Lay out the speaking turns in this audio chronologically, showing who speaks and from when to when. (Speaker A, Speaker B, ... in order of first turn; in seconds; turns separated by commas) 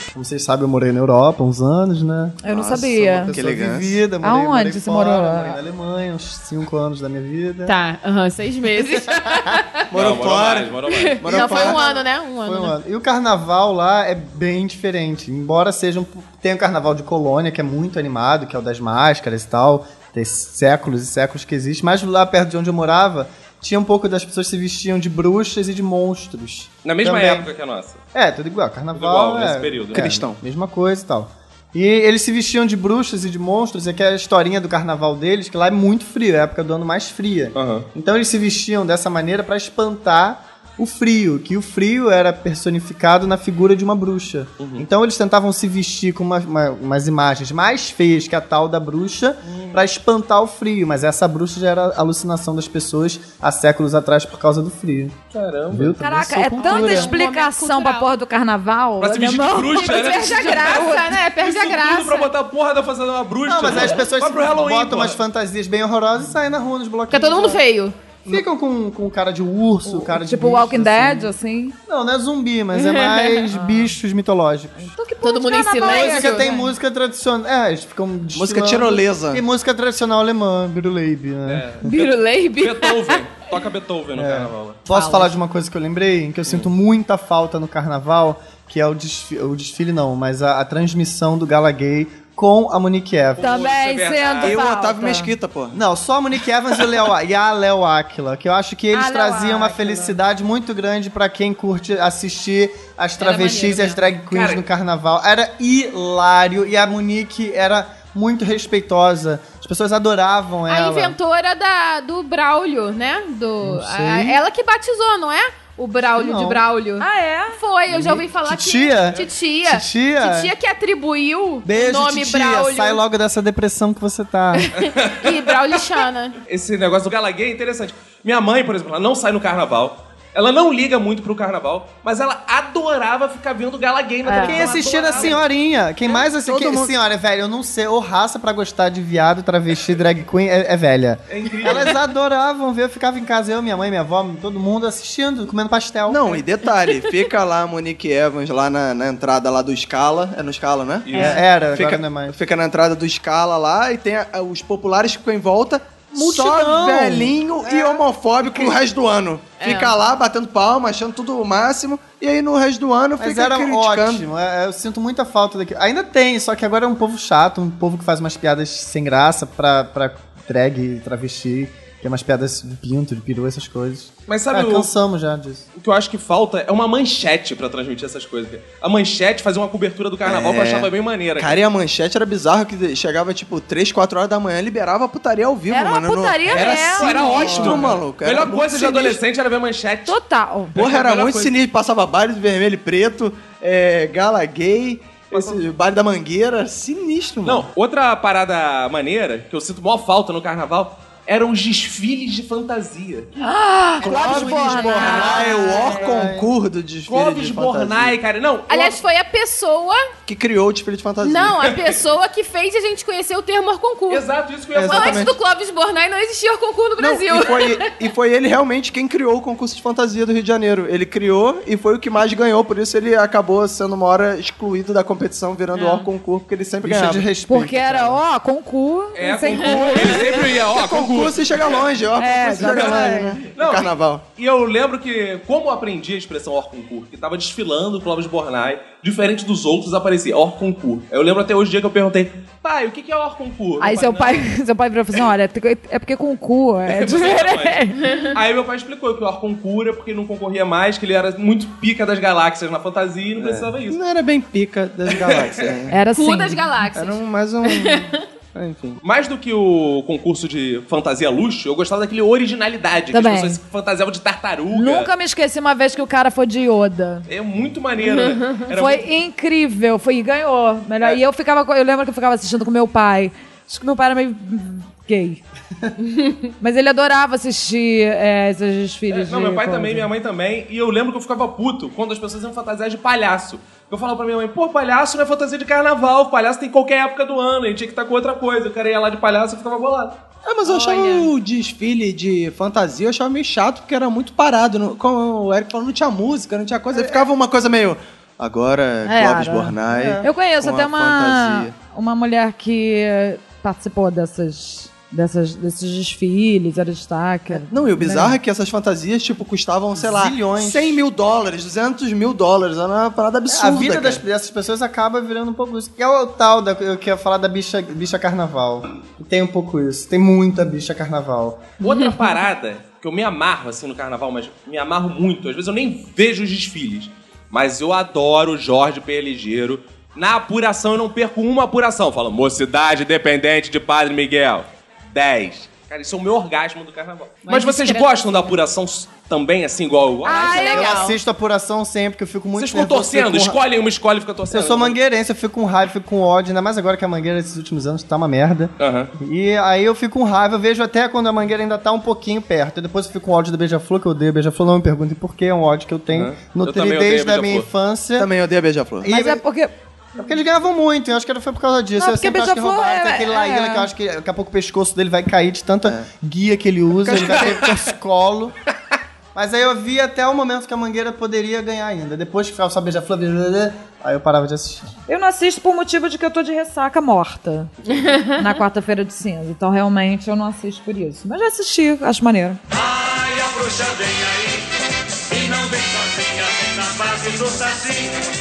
Speaker A: 0.1-7.8, Speaker B: 2.4-3.3, Speaker C: 2.5-4.0, Speaker B: 4.2-5.6, Speaker D: 7.6-9.8, Speaker A: 8.9-9.6, Speaker C: 9.9-11.9, Speaker E: 9.9-11.5, Speaker D: 10.9-12.7, Speaker A: 11.5-27.5, Speaker E: 26.8-28.0, Speaker A: 28.1-55.2, Speaker E: 28.9-30.2, Speaker C: 29.9-30.4, Speaker E: 37.5-37.9, Speaker E: 44.6-44.9, Speaker E: 49.5-49.8, Speaker E: 55.3-56.0, Speaker A: 55.7-57.1, Speaker B: 56.0-60.6, Speaker D: 56.6-58.1, Speaker E: 59.0-65.2, Speaker D: 59.6-62.3, Speaker A: 63.5-67.6, Speaker D: 67.1-68.0, Speaker A: 68.3-71.3, Speaker B: 69.8-71.8, Speaker A: 71.9-75.0, Speaker D: 72.8-73.4, Speaker B: 73.5-74.0, Speaker B: 74.8-76.7, Speaker D: 75.2-76.5, Speaker A: 75.8-81.9, Speaker C: 78.3-79.4, Speaker E: 81.5-84.8, Speaker D: 81.8-83.2, Speaker A: 84.1-93.5, Speaker D: 84.9-85.3, Speaker E: 93.4-94.6, Speaker B: 93.4-95.3, Speaker C: 94.4-95.8, Speaker A: 95.7-111.2, Speaker B: 98.9-100.2, Speaker D: 103.2-104.0, Speaker E: 104.3-104.6, Speaker D: 110.7-123.0, Speaker A: 113.6-114.4, Speaker A: 116.1-116.6, Speaker B: 117.0-117.6, Speaker A: 117.9-120.5, Speaker A: 121.6-124.7, Speaker D: 124.7-126.4, Speaker E: 124.7-125.8, Speaker E: 126.5-135.4, Speaker D: 134.3-134.5, Speaker A: 134.4-146.4, Speaker C: 136.3-136.9, Speaker E: 141.3-142.0, Speaker C: 146.1-164.3, Speaker E: 151.1-151.4, Speaker A: 151.1-152.4, Speaker A: 156.1-158.8, Speaker D: 159.6-159.9, Speaker A: 163.2-175.6, Speaker E: 174.3-174.9, Speaker E: 175.8-181.6, Speaker C: 180.2-189.2, Speaker B: 185.7-187.9, Speaker E: 186.5-190.2, Speaker B: 190.1-190.8, Speaker E: 190.7-191.5, Speaker C: 190.8-197.7, Speaker E: 195.3-195.6, Speaker E: 197.4-203.3, Speaker B: 203.4-206.1, Speaker C: 204.0-208.2, Speaker A: 204.1-206.5, Speaker E: 207.1-209.0, Speaker D: 208.7-210.0, Speaker C: 210.3-211.8, Speaker D: 211.2-214.3, Speaker E: 214.1-215.3, Speaker C: 214.7-215.3, Speaker D: 214.8-217.9, Speaker C: 217.0-227.3, Speaker D: 225.7-226.1, Speaker A: 226.8-228.2, Speaker B: 227.5-230.3, Speaker E: 229.2-231.8, Speaker C: 230.6-234.2, Speaker B: 232.2-233.4, Speaker E: 232.7-244.5, Speaker B: 243.8-248.0, Speaker E: 246.9-254.0, Speaker D: 248.0-248.3, Speaker C: 253.4-256.0, Speaker E: 255.1-255.7, Speaker B: 255.9-256.6, Speaker D: 256.1-258.2, Speaker C: 256.9-259.0, Speaker E: 259.0-265.1, Speaker B: 263.1-263.6, Speaker B: 264.7-267.3, Speaker E: 267.3-269.1, Speaker D: 268.0-268.5, Speaker B: 268.7-275.4, Speaker D: 276.0-276.4, Speaker B: 276.6-280.1, Speaker E: 279.1-290.2, Speaker C: 290.4-301.7, Speaker D: 290.6-291.3, Speaker B: 299.1-308.4, Speaker A: 299.9-300.3, Speaker C: 307.6-314.2, Speaker A: 309.9-311.0, Speaker A: 313.5-321.7, Speaker E: 321.8-340.9, Speaker D: 337.4-338.4, Speaker B: 340.2-341.1, Speaker D: 340.3-341.2, Speaker A: 340.8-343.6, Speaker E: 342.6-345.0, Speaker A: 344.5-358.3, Speaker E: 348.8-349.1, Speaker E: 356.1-357.7, Speaker C: 358.2-359.1, Speaker A: 359.0-359.4, Speaker B: 359.1-359.7, Speaker A: 360.1-368.6, Speaker B: 361.9-363.9, Speaker C: 367.0-367.7, Speaker A: 369.3-374.9, Speaker B: 375.1-382.6, Speaker F: 382.7-384.7, Speaker F: 385.3-388.2